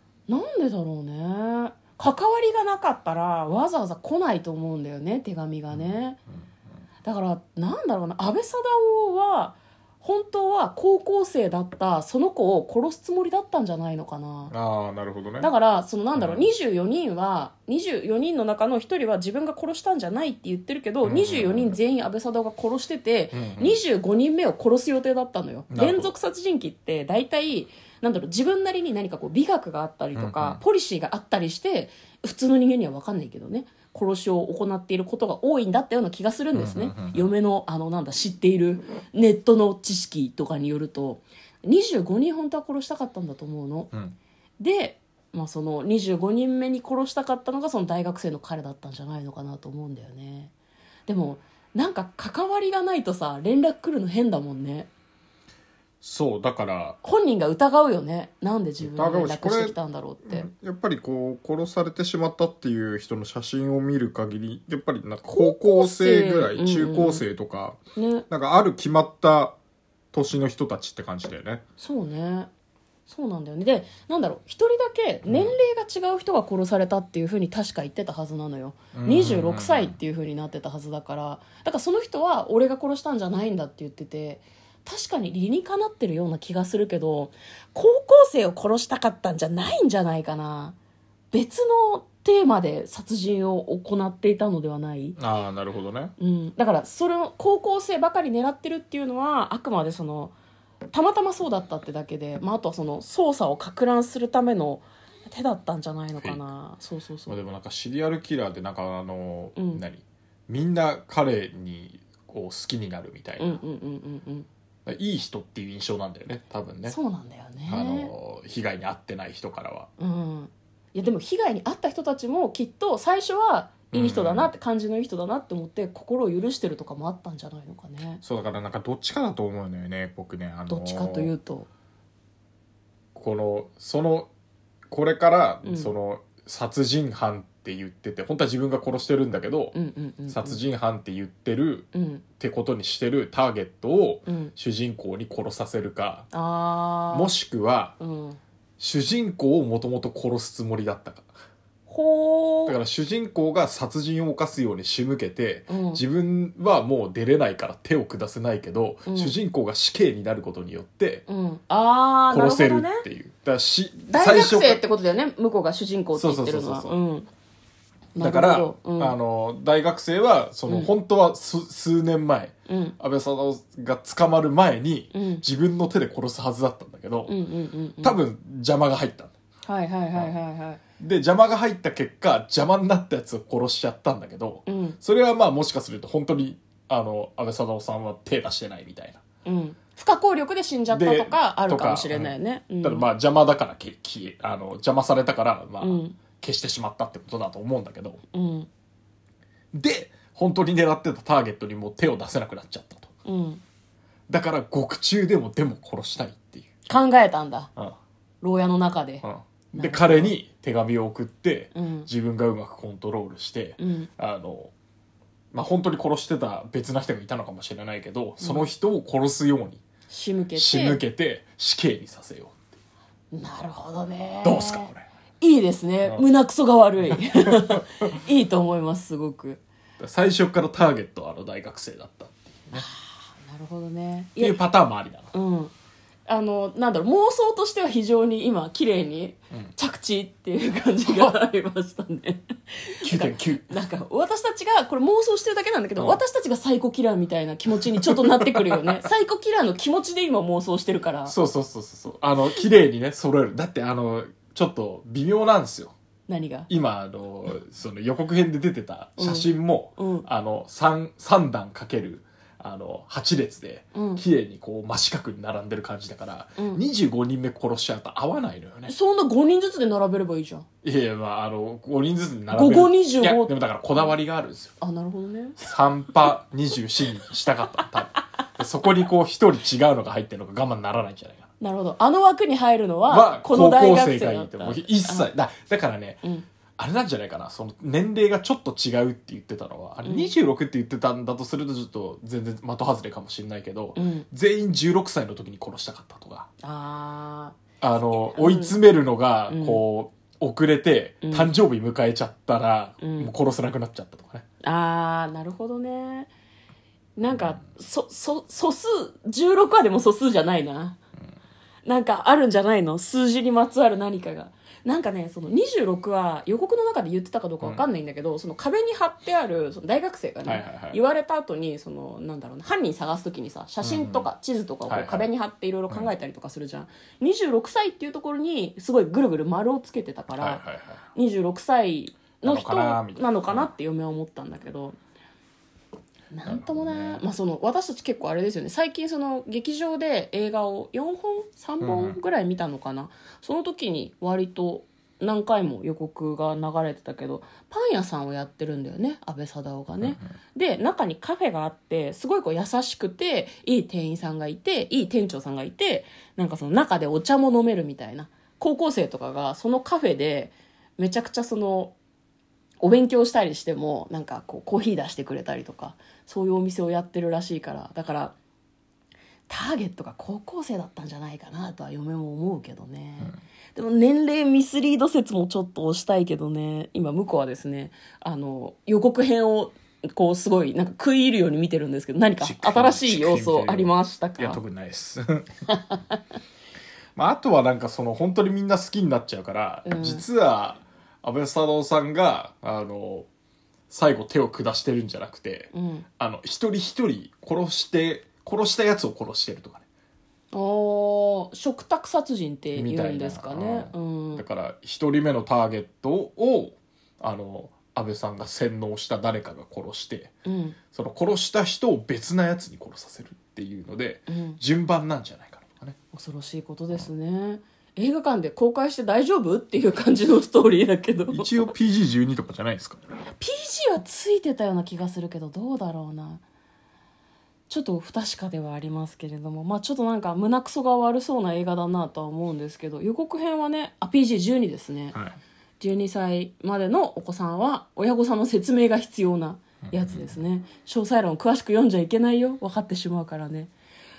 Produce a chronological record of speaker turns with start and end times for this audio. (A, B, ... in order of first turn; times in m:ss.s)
0:00.3-0:06.2 A
0:07.0-0:14.5 A
0:14.5-0:15.5 B
0:15.4-0:43.9 A
0:16.2-0:16.5 B
0:21.0-0:21.8 B
0:23.3-0:23.8 B
0:25.7-0:26.1 B
0:30.2-0:30.6 B
0:36.5-0:37.3 B
0:44.6-0:50.5 A
0:51.1-0:54.9 A
0:56.0-0:57.0 B
0:57.0-1:00.5 A
0:58.8-1:09.6 B
1:05.3-1:07.2 A
1:08.0-1:08.2 A
1:10.1-1:11.6 B
1:11.8-1:12.5 A
1:13.1-1:30.8 A
1:15.3-1:15.6 B
1:18.9-1:20.0 B
1:31.3-1:35.2 A
1:35.2-1:36.1 B
1:36.2-1:40.3 A
1:40.9-1:47.4 A
1:46.2-1:46.4 B
1:47.3-1:53.6 B
1:49.6-1:49.8 A
1:53.4-1:54.5 A
1:54.9-1:57.0 B
1:56.9-1:58.1 A
1:57.7-1:59.9 B
2:00.0-2:08.2 A
2:03.9-2:04.5 B
2:08.2-2:11.3 B
2:10.7-2:11.7 A
2:13.2-2:14.3 B
2:14.9-2:19.8 B
2:15.6-2:15.9 A
2:19.7-2:20.6 A
2:20.3-2:21.9 B
2:21.9-2:22.2 A
2:22.4-2:26.3 B
2:24.3-2:24.5 A
2:26.3-2:27.3 A
2:27.1-2:28.0 B
2:28.0-2:28.4 A
2:28.8-2:31.3 B
2:31.9-2:32.8 A
2:32.7-2:41.2 B
2:35.7-2:36.0 A
2:39.1-2:39.4 A
2:41.3-2:43.0 A
2:42.3-2:44.8 B
2:44.1-2:47.3 A
2:46.2-2:46.9 B
2:48.2-2:49.2 A
2:48.2-2:57.4 B
2:52.7-2:53.0 A
2:55.1-2:55.4 A
2:57.3-2:58.2 A
2:58.0-2:59.3 B
2:59.6-3:00.8 A
3:01.0-3:09.2 B
3:04.7-3:05.0 A
3:09.4-3:13.1 A
3:10.9-3:18.2 B
3:15.8-3:16.2 A
3:18.3-3:18.7 A
3:19.7-3:23.1 B
3:23.2-3:23.6 A
3:24.3-3:26.7 B
3:26.9-3:27.7 A
3:28.4-3:29.2 A
3:29.2-3:34.7 B
3:29.8-3:30.4 A
3:31.7-3:32.1 A
3:33.8-3:34.1 A
3:35.5-3:39.8 B
3:38.4-3:38.7 A
3:40.1-3:41.0 A
3:40.6-3:42.6 B
3:43.3-3:49.6 A
3:44.4-3:45.0 B
3:47.0-3:47.8 B
3:50.0-3:52.9 B
3:52.7-3:54.6 A
3:54.4-3:55.3 B
3:55.3-3:55.7 A
3:56.3-4:11.4 A
4:03.0-4:03.7 B
4:08.1-4:08.8 B
4:11.3-4:16.0 B
4:16.3-4:16.7 A
4:16.7-4:28.9 B
4:19.2-4:20.3 A
4:23.9-4:24.2 A
4:26.6-4:26.8 A
4:28.9-4:30.7 A
4:30.8-4:34.7 B
4:32.5-4:33.6 A
4:34.8-4:35.6 A
4:35.6-4:41.5 B
4:41.6-4:45.3 A
4:43.1-4:46.2 B
4:46.8-4:56.5 B
4:50.0-4:50.3 A
4:54.0-4:54.3 A
4:56.6-4:58.8 A
4:57.8-5:04.4 B
4:59.5-4:59.8 A
5:01.2-5:01.5 A
5:03.0-5:03.3 A
5:04.6-5:06.3 A
5:07.2-5:11.0 A
5:11.8-5:30.6 A
5:20.4-5:21.0 B
5:23.8-5:24.3 B
5:24.9-5:25.3 B
5:30.4-5:31.0 B
5:31.1-5:35.0 A
5:32.4-5:33.7 B
5:36.3-6:02.0 A
5:36.4-5:37.2 B
5:41.8-5:42.2 B
6:02.8-6:08.4 A
6:09.5-6:24.6 A
6:22.4-6:25.5 B
6:25.7-6:26.2 A
6:27.2-6:33.3 B
6:29.8-6:30.3 A
6:33.9-6:39.8 B
6:35.7-6:36.1 A
6:40.5-6:44.4 A
6:42.7-6:50.4 B
6:50.4-6:50.8 A
6:50.9-6:56.0 B
6:54.3-6:54.6 A
6:56.1-7:01.7 A
7:01.3-7:03.1 B
7:03.3-7:06.4 A
7:07.7-7:15.2 A
7:15.8-7:23.7 A
7:19.8-7:20.3 B